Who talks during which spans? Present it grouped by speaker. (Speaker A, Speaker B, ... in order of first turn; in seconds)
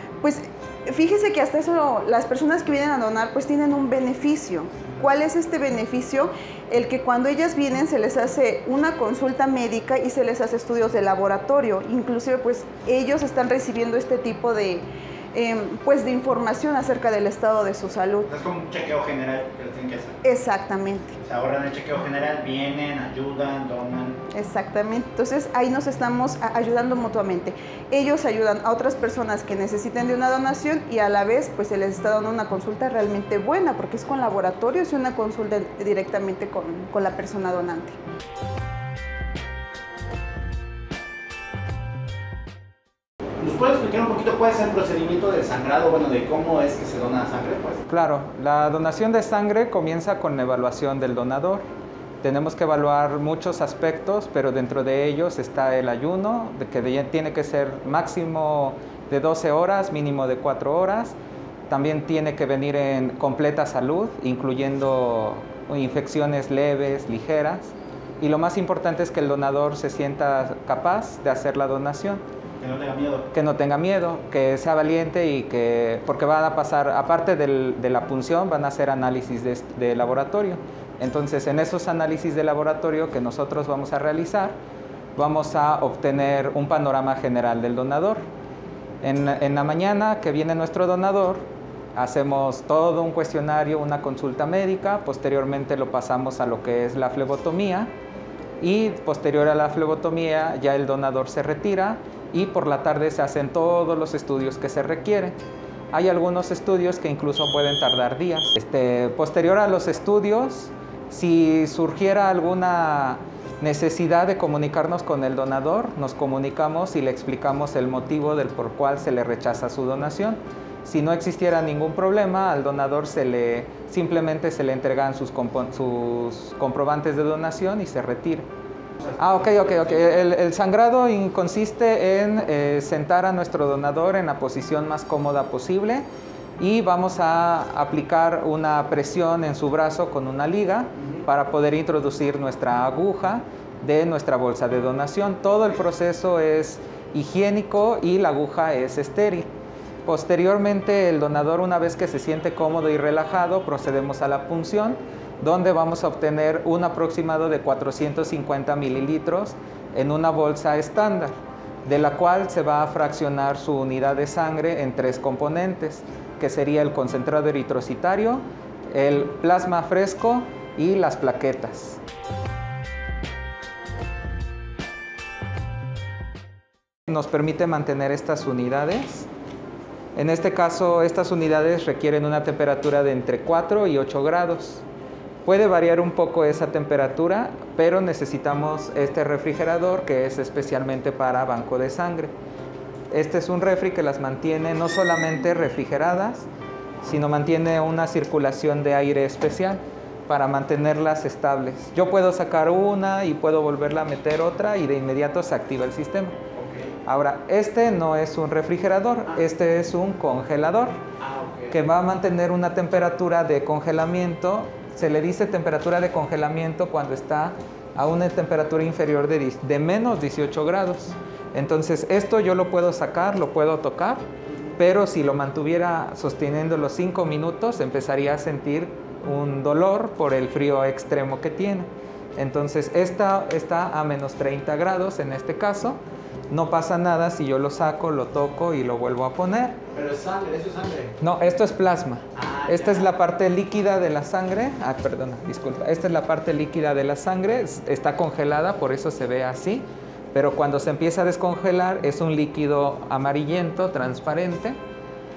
Speaker A: 0.2-18.3, 20.2-21.2, 24.3-38.0
Speaker B: 18.3-20.2, 21.2-24.2, 43.4-47.8, 72.6-73.2, 206.6-206.9, 211.2-211.7, 239.9-241.1, 242.4-243.1
Speaker C: 47.9-51.6, 52.2-61.1, 61.7-72.2, 73.3-84.5, 85.2-88.2, 89.0-97.9, 98.6-105.3, 105.9-128.4, 129.2-136.0, 136.6-149.5, 150.0-172.0, 177.1-179.3, 180.1-184.8, 185.4-192.3, 193.1-196.5, 197.0-206.3, 207.1-211.0, 211.7-224.2, 224.8-236.0, 236.5-239.8, 241.2-254.8